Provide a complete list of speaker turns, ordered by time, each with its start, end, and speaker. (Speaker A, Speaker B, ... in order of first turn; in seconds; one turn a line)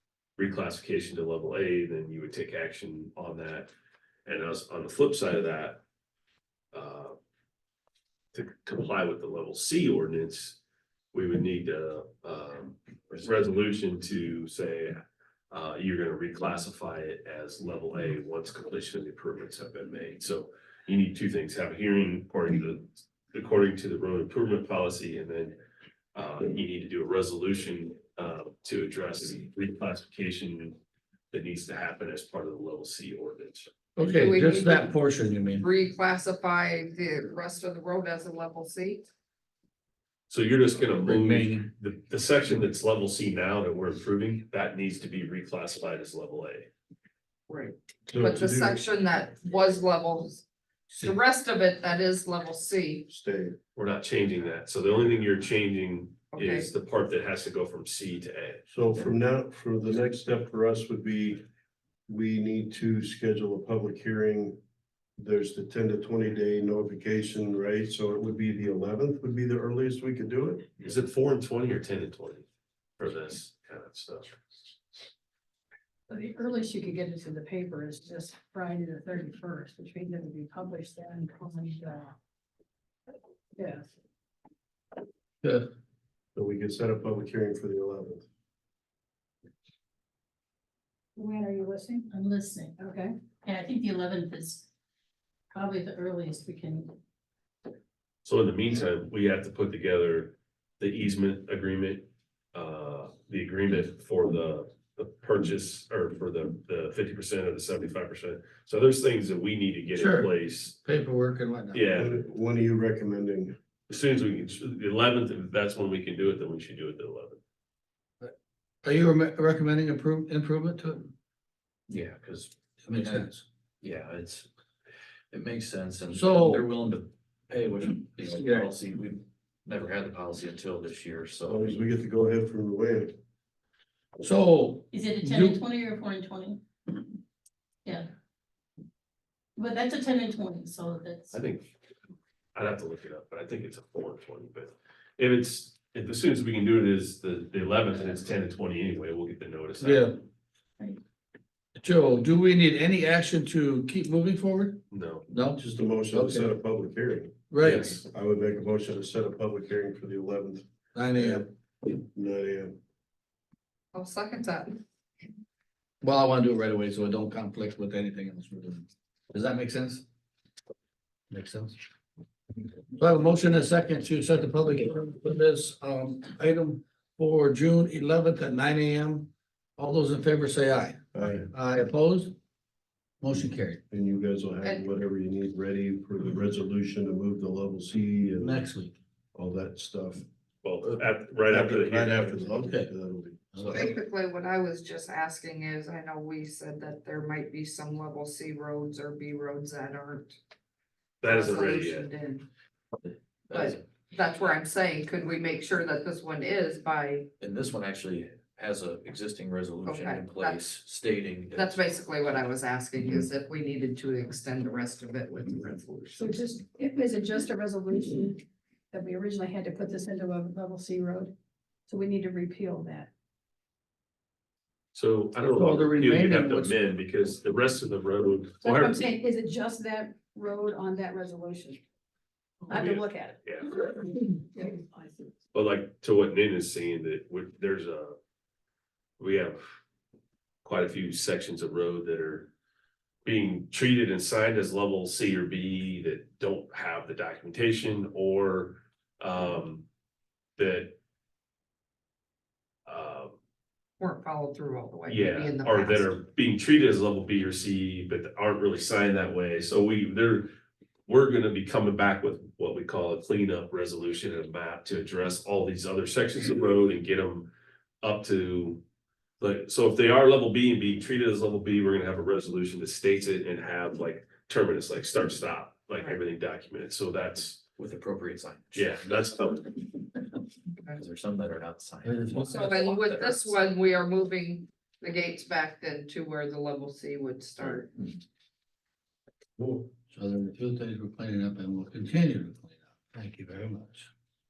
Speaker A: 0.4-3.7
Speaker A: 4.2-5.8
Speaker A: 6.7-7.2
Speaker A: 8.3-10.6
Speaker A: 11.1-25.6
Speaker A: 26.1-30.8
Speaker A: 31.3-33.7
Speaker B: 34.0-35.6
Speaker C: 34.0-34.9
Speaker C: 35.6-39.0
Speaker A: 40.3-46.7
Speaker B: 41.0-41.7
Speaker C: 47.5-53.0
Speaker D: 48.1-48.8
Speaker D: 53.1-53.6
Speaker A: 53.7-58.6
Speaker C: 56.3-56.7
Speaker D: 58.7-61.4
Speaker D: 62.1-64.6
Speaker D: 65.2-70.7
Speaker A: 70.8-72.5
Speaker A: 73.0-74.4
Speaker E: 76.1-82.1
Speaker E: 83.5-83.9
Speaker D: 86.3-88.2
Speaker E: 91.2-92.1
Speaker F: 92.1-92.7
Speaker E: 92.8-93.1
Speaker F: 93.4-94.7
Speaker F: 95.5-97.0
Speaker A: 98.2-110.8
Speaker B: 109.9-110.3
Speaker B: 110.8-112.0
Speaker A: 111.7-112.2
Speaker D: 111.9-113.6
Speaker A: 113.9-117.4
Speaker B: 118.2-121.1
Speaker G: 121.9-123.3
Speaker B: 122.8-123.4
Speaker G: 123.8-124.5
Speaker G: 125.3-131.8
Speaker B: 126.1-126.7
Speaker B: 128.2-128.7
Speaker D: 131.4-133.1
Speaker B: 134.2-135.6
Speaker F: 134.9-136.6
Speaker F: 137.8-138.1
Speaker F: 139.6-141.4
Speaker A: 141.3-141.7
Speaker A: 142.5-150.1
Speaker B: 149.8-150.2
Speaker B: 151.8-156.5
Speaker A: 154.9-155.2
Speaker D: 155.6-160.6
Speaker B: 157.5-157.9
Speaker A: 157.6-158.0
Speaker B: 160.9-161.4
Speaker D: 161.2-162.8
Speaker C: 163.9-164.8
Speaker B: 166.0-170.0
Speaker B: 171.3-171.8
Speaker B: 172.9-182.3
Speaker D: 181.1-181.5
Speaker B: 183.2-183.8
Speaker D: 183.9-188.6
Speaker C: 184.6-184.9
Speaker B: 188.4-188.9
Speaker D: 189.3-190.2
Speaker A: 190.6-192.4
Speaker B: 190.8-192.9
Speaker D: 191.7-193.9
Speaker B: 193.5-193.9
Speaker C: 193.7-200.4
Speaker A: 201.2-202.1
Speaker C: 201.2-202.4
Speaker C: 203.5-207.3
Speaker G: 207.4-212.0
Speaker C: 209.8-210.6
Speaker C: 211.5-216.3
Speaker E: 216.2-221.3
Speaker E: 221.9-223.1
Speaker A: 224.9-229.1
Speaker B: 225.5-226.8
Speaker E: 228.6-231.8
Speaker E: 232.7-235.3
Speaker A: 232.7-233.7
Speaker A: 235.5-238.2
Speaker A: 239.2-239.6
Speaker A: 240.6-242.5
Speaker A: 243.2-249.8
Speaker A: 250.6-250.9
Speaker A: 252.8-253.3
Speaker C: 254.0-256.1
Speaker A: 255.1-260.5
Speaker A: 261.1-267.5
Speaker A: 268.0-268.8
Speaker A: 269.4-277.6
Speaker G: 277.8-279.0
Speaker A: 278.7-279.8
Speaker G: 280.9-283.6
Speaker B: 282.0-282.5
Speaker C: 282.5-287.9
Speaker B: 289.6-294.1